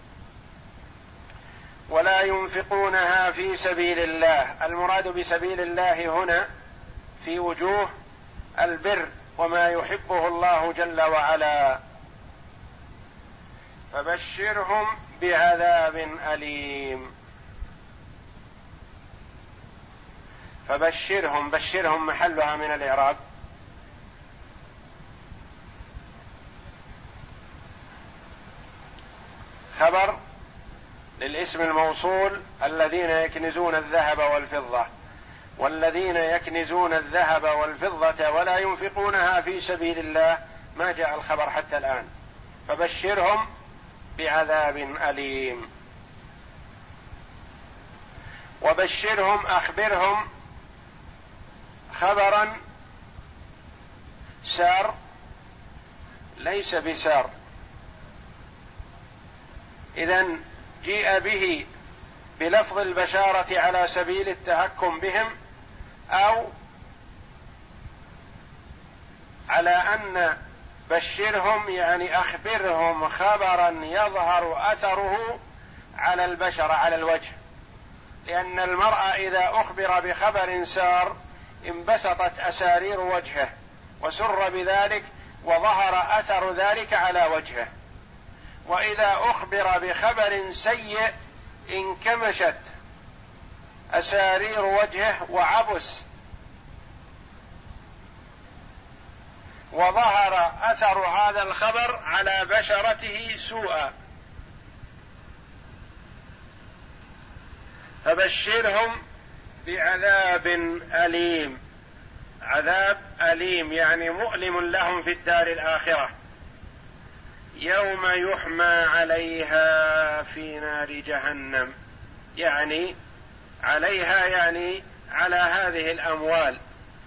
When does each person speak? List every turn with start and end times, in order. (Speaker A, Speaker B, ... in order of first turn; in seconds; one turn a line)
Speaker A: 1.9-6.5
Speaker A: 7.2-7.9
Speaker A: 8.6-11.8
Speaker A: 13.9-17.1
Speaker A: 20.7-23.2
Speaker A: 29.8-30.2
Speaker A: 31.2-34.9
Speaker A: 35.6-42.1
Speaker A: 42.7-43.5
Speaker A: 44.2-45.7
Speaker A: 48.6-50.2
Speaker A: 51.9-52.6
Speaker A: 54.5-54.9
Speaker A: 56.4-57.3
Speaker A: 60.0-61.7
Speaker A: 62.4-65.3
Speaker A: 66.1-66.5
Speaker A: 69.5-70.4
Speaker A: 70.9-75.4
Speaker A: 76.0-77.4
Speaker A: 78.2-87.7
Speaker A: 88.7-91.1
Speaker A: 91.7-92.7
Speaker A: 93.9-96.1
Speaker A: 99.7-103.9
Speaker A: 108.0-109.0
Speaker A: 109.7-111.6
Speaker A: 112.5-116.1
Speaker A: 117.6-121.7
Speaker A: 122.4-123.0
Speaker A: 123.6-126.6